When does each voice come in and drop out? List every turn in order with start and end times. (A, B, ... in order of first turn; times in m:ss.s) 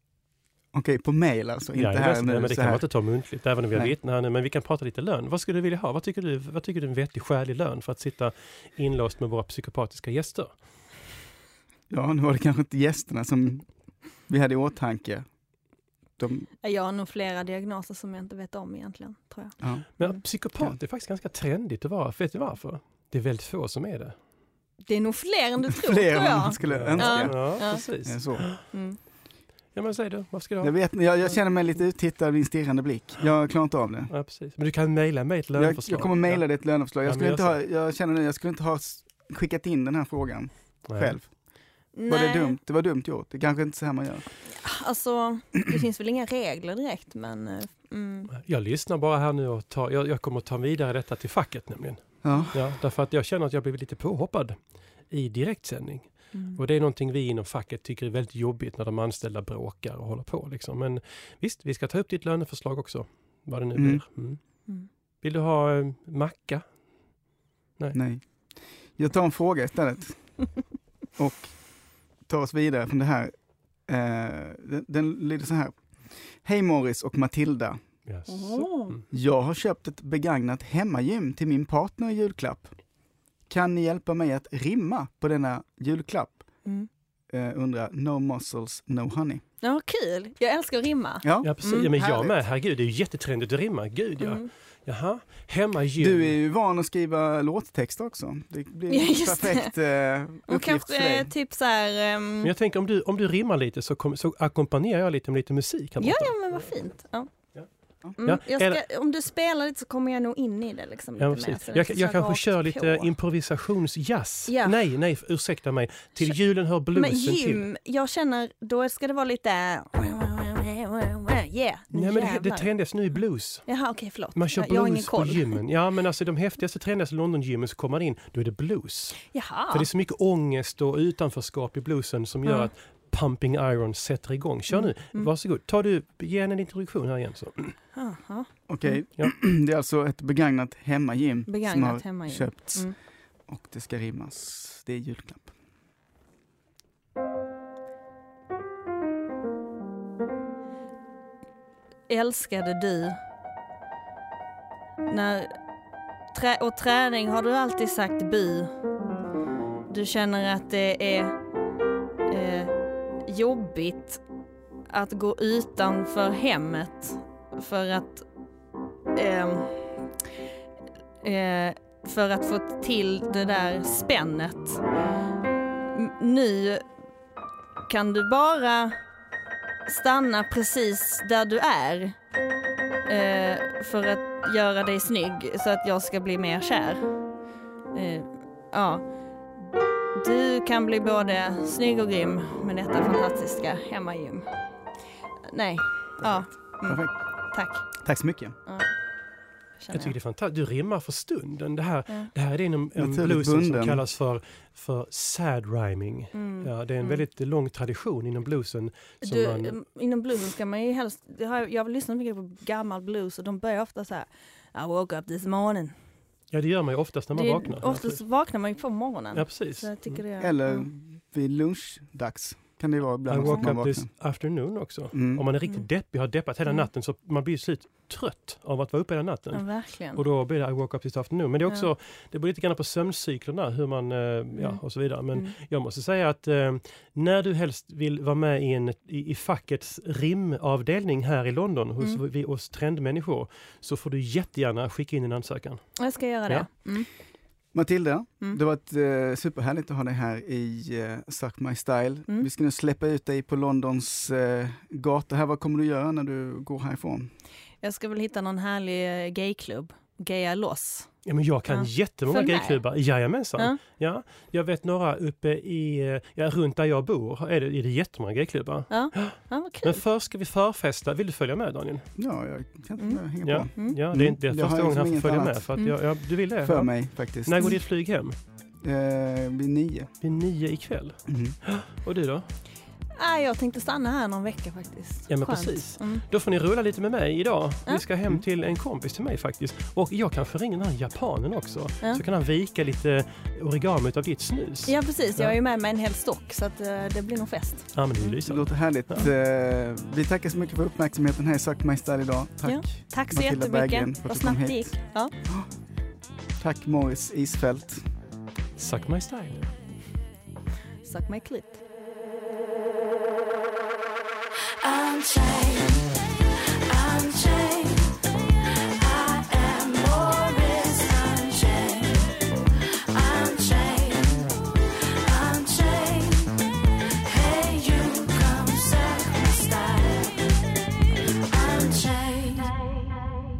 0:00.7-0:02.8 A
0:01.7-0:10.5 B
0:11.9-0:13.7 A
0:14.3-0:15.2 A
0:16.2-0:16.5 A
0:16.6-0:20.2 C
0:19.6-0:19.8 A
0:20.0-0:24.2 B
0:24.8-0:27.8 C
0:25.6-0:28.4 A
0:26.6-0:28.6 B
0:28.5-0:29.0 C
0:29.7-0:30.7 B
0:30.6-0:34.1 A
0:34.1-0:36.4 B
0:35.6-0:41.3 A
0:37.0-0:37.6 B
0:40.9-0:41.2 B
0:41.9-0:42.6 C
0:42.1-0:44.2 A
0:44.5-0:48.3 C
0:48.3-0:54.6 B
0:52.2-0:52.6 A
0:55.1-1:04.4 B
0:56.3-0:56.6 C
1:03.7-1:04.0 A
1:05.2-1:06.6 B
1:07.9-1:08.2 A
1:09.0-1:10.2 A
1:11.2-1:11.6 A
1:12.2-1:13.3 A
1:13.9-1:15.8 A
1:16.4-1:17.8 A
1:18.1-1:19.0 B
1:18.3-1:19.0 C
1:19.1-1:22.7 A
1:23.5-1:26.4 A
1:27.3-1:29.4 A
1:29.6-1:31.9 C
1:31.2-1:32.4 A
1:31.4-1:36.3 B
1:34.2-1:34.5 C
1:36.0-1:41.3 A
1:38.9-1:39.7 C
1:40.5-1:42.5 C
1:42.4-1:46.7 B
1:46.0-1:47.3 C
1:48.2-1:53.1 C
1:48.2-1:48.8 B
1:51.2-1:57.6 B
1:54.5-1:54.8 C
1:56.9-2:02.7 C
2:01.9-2:03.6 B
2:03.6-2:05.6 C
2:04.3-2:17.7 B
2:09.3-2:09.9 C
2:12.4-2:12.7 C
2:14.7-2:15.3 C
2:17.9-2:19.0 C
2:18.7-2:22.9 A
2:21.5-2:23.0 C
2:23.5-2:25.5 A
2:32.1-2:33.2 C
2:35.0-2:35.5 C
2:36.3-2:38.7 C
2:39.9-2:41.4 C
2:42.3-2:42.7 C
2:43.2-2:44.2 C
2:44.9-2:48.2 C
2:49.1-2:49.9 C
2:51.2-2:54.8 C
2:55.9-2:56.8 C
2:57.9-2:59.0 C
2:59.8-3:02.2 C
3:03.1-3:07.1 C
3:07.9-3:09.0 C
3:10.1-3:14.5 C
3:15.5-3:17.8 C
3:16.2-3:17.1 A
3:18.0-3:18.6 A
3:19.8-3:20.1 C
3:19.9-3:29.8 B
3:23.0-3:24.0 A
3:26.3-3:27.2 C
3:29.2-3:35.9 C
3:36.5-3:38.2 B
3:37.3-3:40.8 C
3:39.3-3:40.1 B
3:40.4-3:44.1 A
3:43.3-4:05.8 B
3:45.1-3:45.4 A
3:49.5-3:50.2 C
4:06.0-4:07.1 C
4:07.7-4:17.3 A
4:17.8-4:21.1 C
4:21.2-4:32.0 B
4:21.7-4:22.8 C
4:28.9-4:30.0 C
4:32.2-4:35.6 A
4:33.0-4:34.0 C
4:33.4-4:38.3 B
4:36.6-4:37.6 A
4:38.8-4:40.1 A
4:40.2-4:42.5 B
4:41.3-4:41.6 A
4:43.2-4:46.2 C
4:45.3-4:55.6 B
4:54.8-4:58.4 C
4:57.9-4:58.7 B
4:58.4-5:04.9 A
5:02.6-5:05.3 C
5:06.6-5:08.0 A
5:08.8-5:09.6 B
5:11.0-5:11.8 C
5:14.9-5:15.9 C
5:16.9-5:18.0 C
5:17.0-5:17.8 D
5:19.1-5:22.2 C
5:19.2-5:22.2 D
5:23.2-5:24.2 D
5:23.3-5:24.3 C
5:25.3-5:26.4 D
5:25.4-5:26.0 C
5:27.3-5:30.2 D
5:27.4-5:29.9 C
5:31.6-5:32.6 D